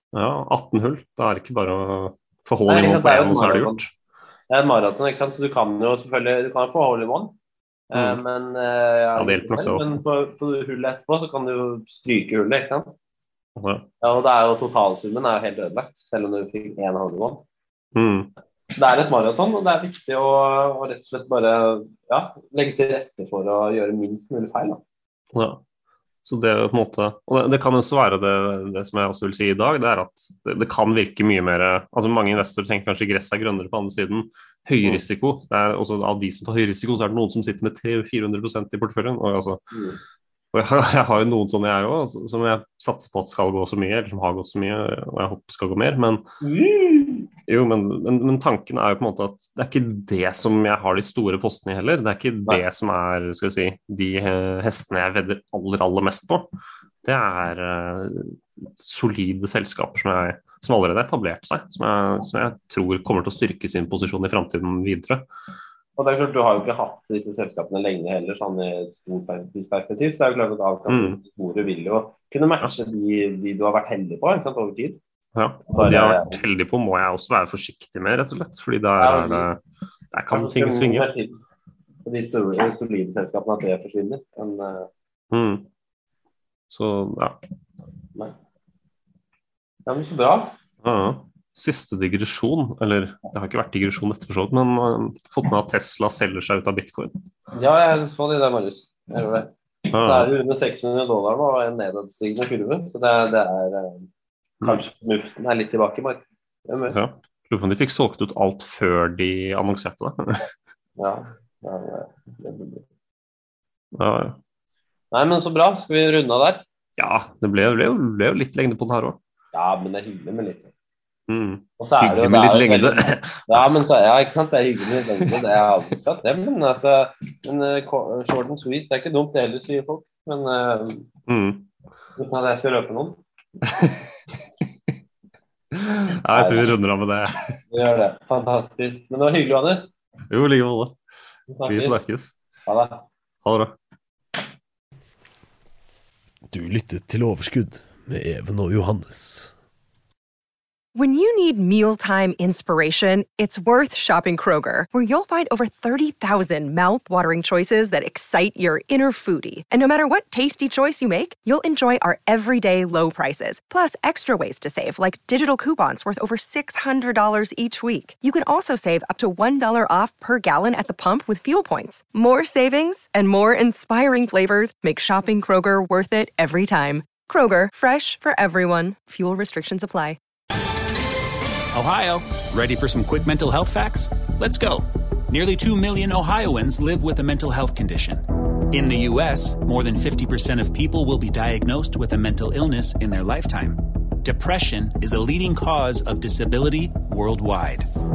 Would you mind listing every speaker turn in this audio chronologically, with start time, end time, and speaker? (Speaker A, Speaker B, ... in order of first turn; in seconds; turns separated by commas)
Speaker A: 0.1-3.9, Speaker B: 2.7-3.8, Speaker B: 4.5-7.3, Speaker B: 7.9-12.9, Speaker A: 7.9-8.2, Speaker A: 9.2-10.0, Speaker A: 13.6-13.9, Speaker B: 14.0-17.4, Speaker A: 17.9-18.3, Speaker B: 18.8-24.8, Speaker A: 25.3-25.6, Speaker A: 26.2-39.6, Speaker B: 39.7-40.0, Speaker A: 40.5-46.2, Speaker B: 46.4-47.3, Speaker A: 47.4-56.5, Speaker A: 57.0-65.2, Speaker B: 66.0-75.0, Speaker A: 70.9-71.2, Speaker A: 75.3-79.6, Speaker B: 75.7-76.4, Speaker B: 79.0-79.5, Speaker A: 80.1-81.1, Speaker B: 80.3-81.4, Speaker B: 82.0-84.9, Speaker A: 85.3-85.7, Speaker A: 86.7-87.4, Speaker B: 89.8-90.5, Speaker A: 90.8-97.1, Speaker B: 97.5-104.1, Speaker A: 99.9-100.3, Speaker B: 104.6-107.0, Speaker A: 106.9-110.5, Speaker B: 111.0-112.8, Speaker A: 113.9-114.4, Speaker B: 115.1-116.6, Speaker A: 117.0-119.2, Speaker B: 119.5-120.7, Speaker A: 121.3-123.8, Speaker B: 121.8-131.1, Speaker A: 131.3-131.7, Speaker B: 132.2-133.2, Speaker A: 133.7-134.1, Speaker A: 135.7-137.6, Speaker B: 136.3-136.7, Speaker B: 137.7-139.9, Speaker A: 140.3-141.0, Speaker B: 141.5-142.0, Speaker A: 141.7-142.3, Speaker B: 142.7-143.1, Speaker A: 143.4-143.8, Speaker C: 146.5-149.5, Speaker D: 150.9-180.2, Speaker E: 181.7-197.8